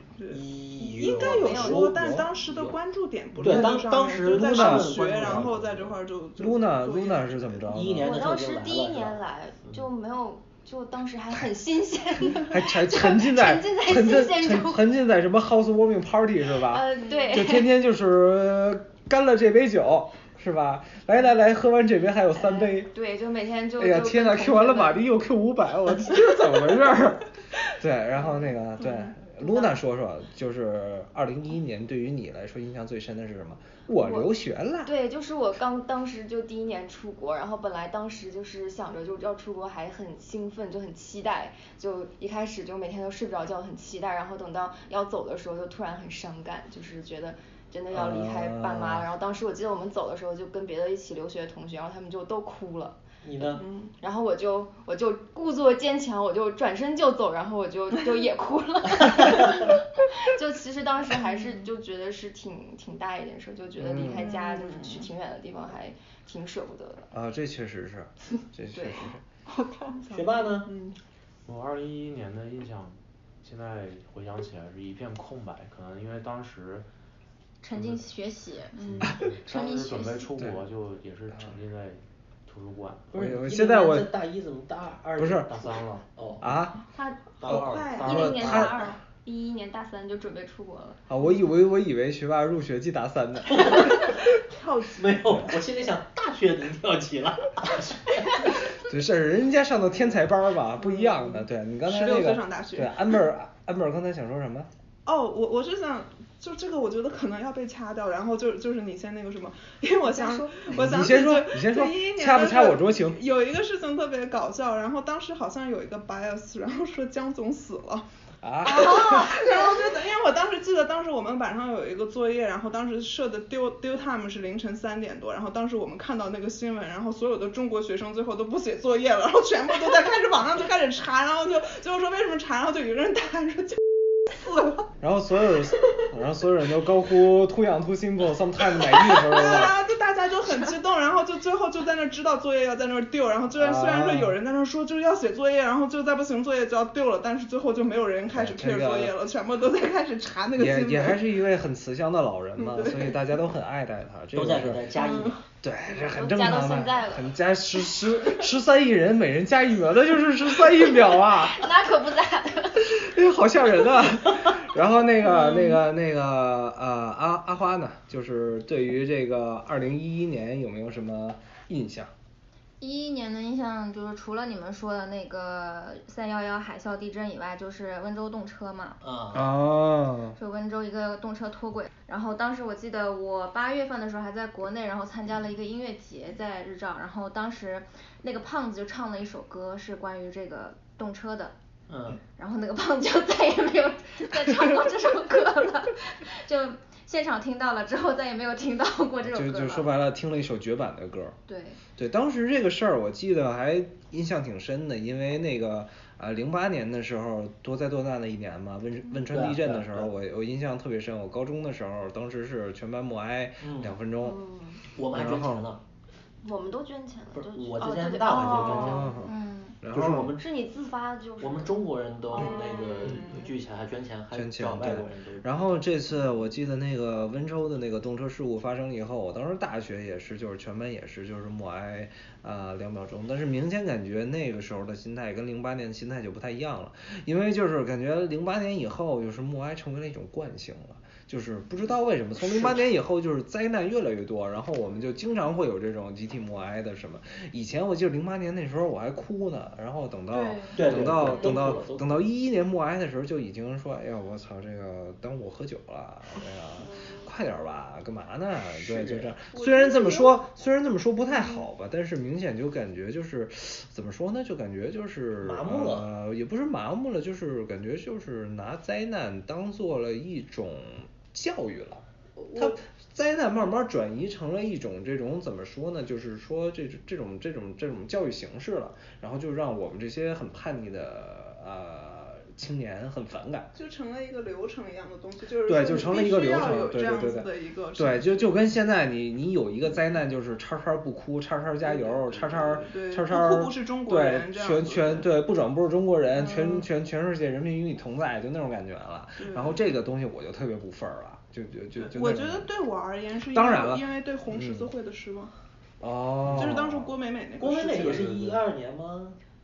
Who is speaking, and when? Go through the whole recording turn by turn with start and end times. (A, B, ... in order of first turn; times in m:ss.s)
0:00.2-0:07.5 A
0:00.3-0:02.8 B
0:01.2-0:01.8 C
0:01.9-0:02.3 D
0:03.4-0:05.6 B
0:04.3-0:08.1 D
0:07.7-0:09.8 B
0:08.0-0:14.8 C
0:12.4-0:22.9 D
0:16.7-0:17.7 C
0:17.0-0:17.3 A
0:22.3-0:25.1 C
0:23.8-0:34.9 D
0:29.4-0:29.7 C
0:34.0-0:34.3 C
0:34.8-1:07.1 C
0:47.9-0:49.1 D
0:53.2-0:53.6 B
0:53.6-0:53.9 A
1:03.8-1:04.3 D
1:04.2-1:05.1 A
1:07.1-1:09.2 D
1:08.7-1:09.1 C
1:09.6-1:09.9 C
1:09.9-1:11.0 A
1:10.1-1:10.7 B
1:11.4-1:16.8 E
1:17.6-1:18.7 F
1:18.8-1:23.1 E
1:18.8-1:19.1 A
1:19.3-1:20.4 F
1:20.4-1:20.6 D
1:23.1-1:26.5 B
1:23.1-1:24.1 D
1:25.2-1:25.5 D
1:25.5-1:26.0 E
1:26.4-1:26.8 D
1:26.9-1:27.4 C
1:27.4-1:28.4 B
1:27.5-1:28.9 D
1:27.5-1:29.0 A
1:27.8-1:28.3 E
1:28.0-1:31.0 C
1:31.1-1:34.0 D
1:33.5-1:34.2 B
1:34.5-1:35.2 A
1:34.9-1:38.4 B
1:38.8-1:44.7 D
1:40.8-1:43.0 A
1:45.0-1:58.0 A
1:50.1-1:50.6 C
1:50.7-1:53.2 D
1:58.4-1:59.4 D
1:58.6-2:14.9 A
2:15.0-2:19.8 D
2:19.0-2:31.2 A
2:23.5-2:24.4 D
2:28.3-2:29.1 D
2:30.5-2:34.9 D
2:32.6-2:33.2 A
2:34.3-2:35.4 B
2:35.0-2:35.4 A
2:35.6-2:41.7 D
2:36.0-2:37.3 C
2:41.5-2:42.9 C
2:42.8-2:52.1 D
2:52.8-2:59.0 F
2:59.0-2:59.5 B
2:59.3-3:00.4 D
3:00.4-3:11.5 F
3:11.9-3:12.2 B
3:12.4-3:19.9 F
3:19.2-3:21.4 D
3:21.5-3:21.8 F
3:22.0-3:34.4 D
3:29.3-3:30.1 B
3:33.6-3:34.0 B
3:34.2-3:34.8 C
3:34.9-3:35.8 B
3:35.1-3:35.7 D
3:36.4-3:39.1 C
3:37.3-3:39.1 B
3:38.5-3:40.3 D
3:39.0-3:39.8 F
3:39.9-3:40.5 B
3:40.3-3:41.8 C
3:41.4-3:45.5 B
3:42.3-3:43.5 C
3:42.3-3:43.3 A
3:44.3-4:43.7 D
4:02.4-4:02.9 B
4:10.3-4:10.9 F
4:10.7-4:12.2 B
4:18.8-4:19.3 B
4:19.5-4:20.4 A
4:21.3-4:21.6 A
4:25.4-4:26.1 B
4:32.4-4:32.8 A
4:43.7-4:48.6 A
4:45.6-5:02.7 D
4:51.8-4:55.3 A
4:56.3-4:56.8 A
4:59.4-4:59.9 A
5:02.0-5:05.5 A
5:03.5-5:04.9 D
5:06.0-5:07.1 D
5:06.4-5:06.8 B
5:06.5-5:08.6 A
5:07.6-5:09.4 B